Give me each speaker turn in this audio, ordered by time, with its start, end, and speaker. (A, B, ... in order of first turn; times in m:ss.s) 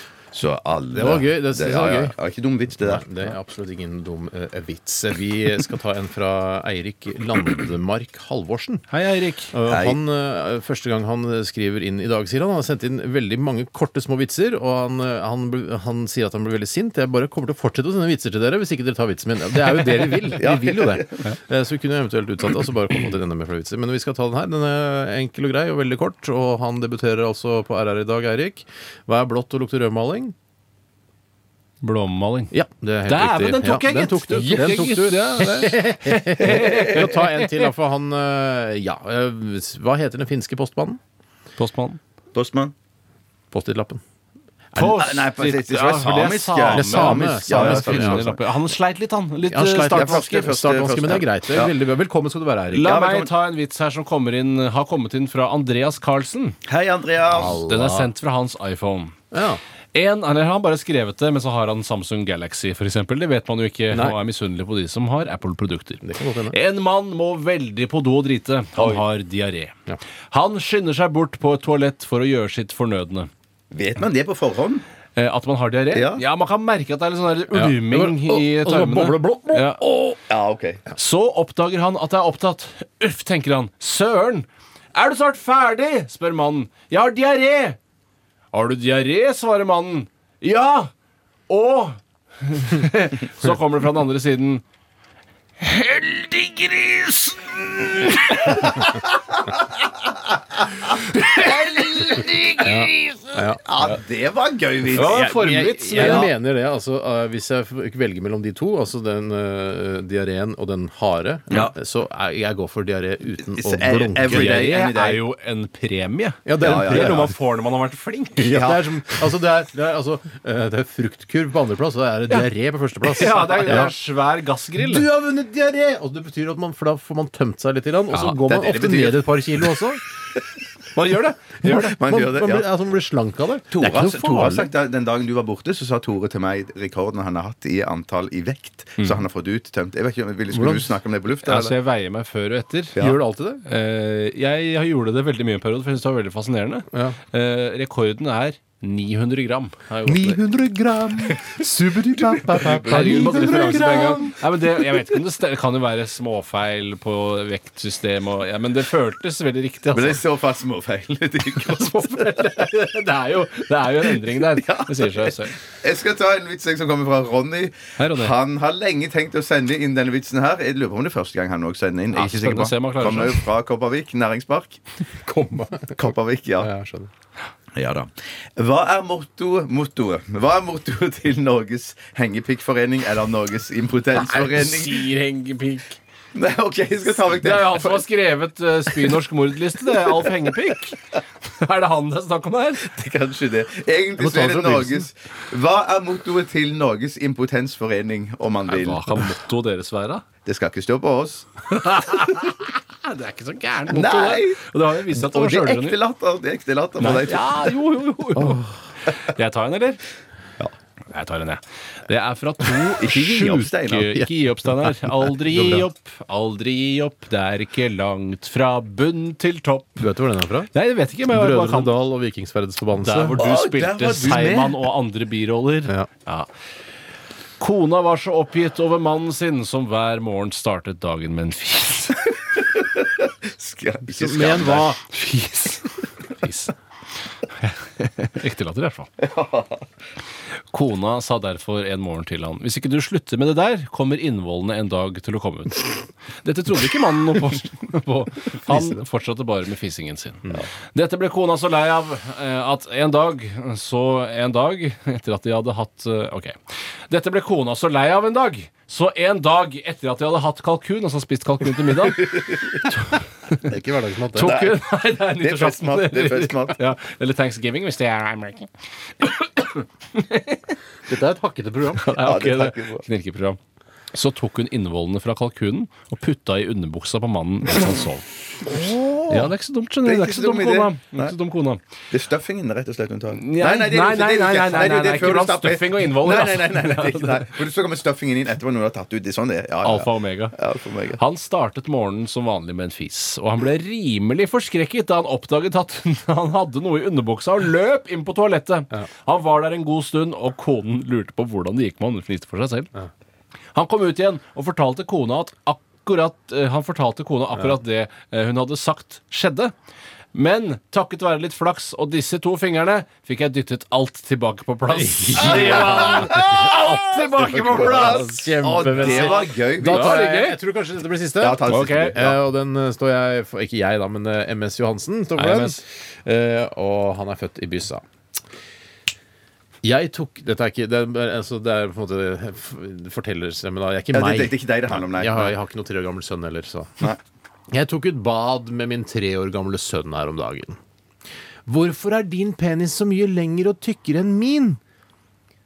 0:00.3-0:03.3 A
0:00.9-0:02.1 B
0:02.8-0:08.8 B
0:08.9-0:09.5 C
0:09.5-0:30.3 B
0:09.7-0:10.0 A
0:20.2-0:21.3 A
0:31.8-0:32.5 C
0:32.5-0:41.0 B
0:33.0-0:37.7 C
0:36.6-0:36.8 A
0:41.6-0:42.0 C
0:42.3-0:42.7 A
0:43.5-0:44.0 B
0:44.7-0:50.5 C
0:44.8-0:48.4 A
0:46.7-0:48.4 B
0:49.5-0:53.0 B
0:49.8-0:51.7 A
0:52.7-0:56.6 C
0:52.8-0:53.3 A
0:56.6-0:57.6 A
0:57.3-0:58.1 B
0:57.6-0:59.2 C
0:59.3-0:59.6 B
0:59.9-1:09.7 C
1:03.9-1:04.2 B
1:06.0-1:06.6 B
1:08.8-1:09.0 A
1:10.3-1:13.3 C
1:13.7-1:14.8 A
1:15.2-1:19.8 C
1:15.9-1:16.2 A
1:17.5-1:20.1 B
1:20.2-1:20.8 A
1:21.0-1:27.8 C
1:28.5-1:30.9 C
1:31.5-1:34.6 C
1:35.6-1:38.8 C
1:41.1-1:42.8 C
1:41.1-1:43.0 A
1:42.6-1:43.6 B
1:43.6-1:45.1 A
1:44.9-1:54.6 B
1:44.9-1:46.3 C
1:46.0-1:46.3 A
1:53.6-1:55.2 A
1:54.2-1:58.6 C
1:56.4-1:57.3 B
1:56.6-1:57.3 A
1:58.4-2:03.9 B
1:58.4-1:58.8 A
2:03.0-2:05.1 C
2:04.8-2:10.0 B
2:08.1-2:08.4 C
2:08.4-2:09.4 A
2:10.9-2:11.9 C
2:11.6-2:14.7 B
2:11.7-2:12.7 A
2:13.7-2:21.8 A
2:20.5-2:20.9 B
2:21.4-2:23.0 C
2:23.0-2:23.6 B
2:23.6-2:30.4 C
2:30.0-2:34.4 B
2:32.5-2:40.2 C
2:32.6-2:33.4 A
2:39.9-2:42.5 A
2:41.6-2:45.6 C
2:44.4-2:54.8 A
2:48.0-2:48.3 C
2:52.1-2:53.4 C
2:55.3-2:55.9 B
2:55.9-2:56.7 A
2:56.6-2:57.1 B
2:57.7-3:05.1 A
3:04.2-3:06.0 C
3:06.3-3:08.0 A
3:07.3-3:11.0 C
3:11.6-3:12.9 C
3:12.8-3:19.3 A
3:14.2-3:15.0 B
3:18.7-3:20.2 C
3:20.4-3:21.5 A
3:21.7-3:26.0 C
3:23.9-3:27.6 A
3:27.0-3:30.0 C
3:31.1-3:40.0 C
3:33.0-3:34.2 A
3:34.2-3:35.8 B
3:40.0-3:40.7 B
3:40.7-3:41.9 C
3:41.3-3:43.4 B
3:43.0-3:46.5 C
3:43.3-3:44.8 A
3:47.6-3:52.4 C
3:53.0-3:55.0 A
3:54.1-3:55.0 B
3:55.1-3:56.7 C
3:57.6-3:59.1 C
3:59.2-3:59.8 A
4:00.7-4:16.6 C
4:08.7-4:09.0 B
4:17.1-4:23.7 C
4:22.2-4:22.8 A
4:23.6-4:24.6 B
4:24.3-4:30.7 C
4:24.4-4:26.8 A
4:31.1-4:32.1 B
4:32.0-4:33.6 C
4:32.1-4:33.0 A
4:34.1-4:38.2 C
4:38.7-4:39.4 B
4:39.3-4:41.8 C
4:40.0-4:41.3 A
4:42.1-4:51.2 A
4:43.4-4:47.4 C
4:49.8-4:50.6 C
4:51.2-5:02.9 C
5:03.7-5:09.7 C
5:10.3-5:20.6 C
5:14.9-5:28.0 B
5:15.4-5:16.8 A
5:17.4-5:20.2 A
5:21.4-5:22.4 A
5:21.7-5:22.2 C
5:25.4-5:25.8 C
5:29.8-5:37.1 B
5:34.1-5:35.5 A
5:37.7-5:40.8 B
5:41.7-5:44.8 B